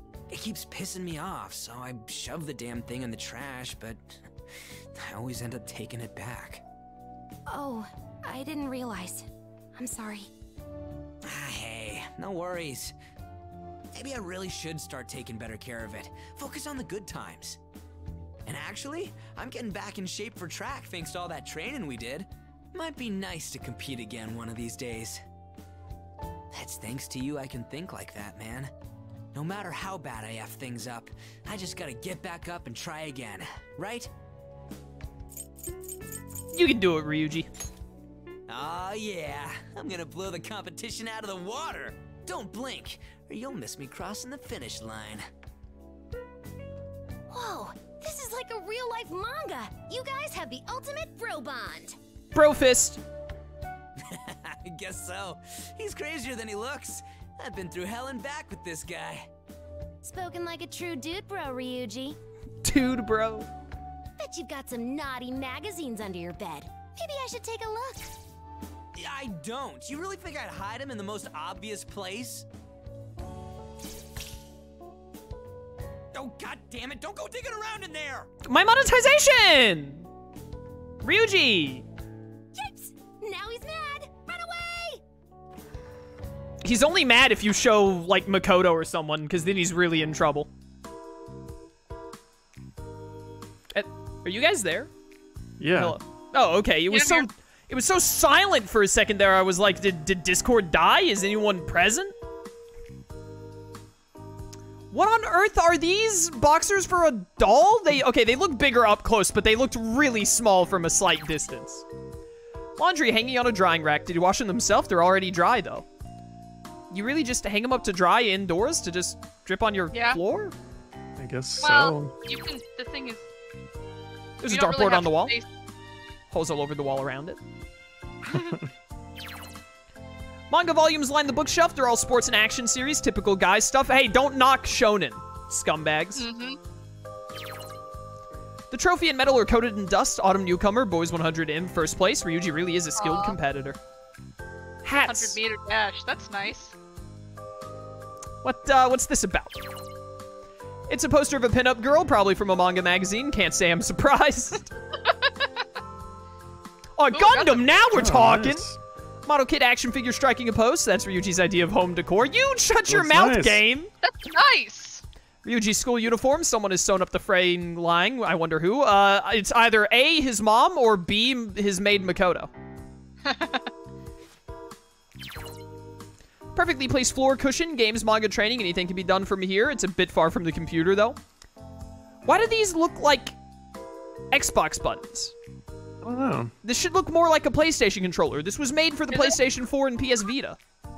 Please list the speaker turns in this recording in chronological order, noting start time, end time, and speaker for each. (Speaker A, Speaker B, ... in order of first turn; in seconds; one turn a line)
Speaker A: 0.3-4.2
Speaker A: 5.0-6.6
Speaker B: 7.5-10.3
Speaker A: 11.2-12.9
Speaker A: 13.9-17.6
Speaker A: 18.4-25.2
Speaker A: 26.5-28.7
Speaker A: 29.3-34.1
Speaker C: 36.5-37.5
Speaker A: 38.5-45.2
Speaker B: 47.3-52.0
Speaker C: 52.3-53.0
Speaker A: 54.1-59.3
Speaker B: 60.0-62.2
Speaker C: 62.6-63.5
Speaker B: 64.2-68.1
Speaker A: 69.0-72.5
Speaker A: 76.1-78.3
Speaker C: 78.5-80.1
Speaker C: 81.0-81.8
Speaker B: 82.5-85.0
Speaker C: 86.6-90.5
Speaker C: 93.7-94.9
Speaker D: 95.6-96.0
Speaker C: 95.7-102.1
Speaker E: 96.9-97.3
Speaker C: 104.9-111.8
Speaker C: 112.8-115.8
Speaker C: 116.9-120.5
Speaker E: 119.9-120.2
Speaker D: 121.2-122.2
Speaker E: 121.6-123.2
Speaker C: 124.4-125.3
Speaker E: 124.4-125.5
Speaker C: 126.3-127.4
Speaker E: 128.3-128.6
Speaker C: 130.5-136.2
Speaker E: 136.1-136.6
Speaker C: 138.7-143.8
Speaker E: 142.9-143.4
Speaker C: 144.8-145.4
Speaker E: 145.0-146.7
Speaker C: 148.4-149.6
Speaker C: 150.9-154.7
Speaker E: 155.0-155.5
Speaker C: 156.9-158.7
Speaker E: 157.1-157.8
Speaker D: 157.9-158.8
Speaker C: 159.2-163.9
Speaker D: 162.9-163.6
Speaker E: 164.0-165.0
Speaker C: 165.4-172.5
Speaker E: 173.2-173.7
Speaker C: 176.5-181.2
Speaker C: 182.2-183.3
Speaker C: 184.3-185.3
Speaker D: 186.0-186.5
Speaker C: 186.6-190.6
Speaker E: 189.1-189.4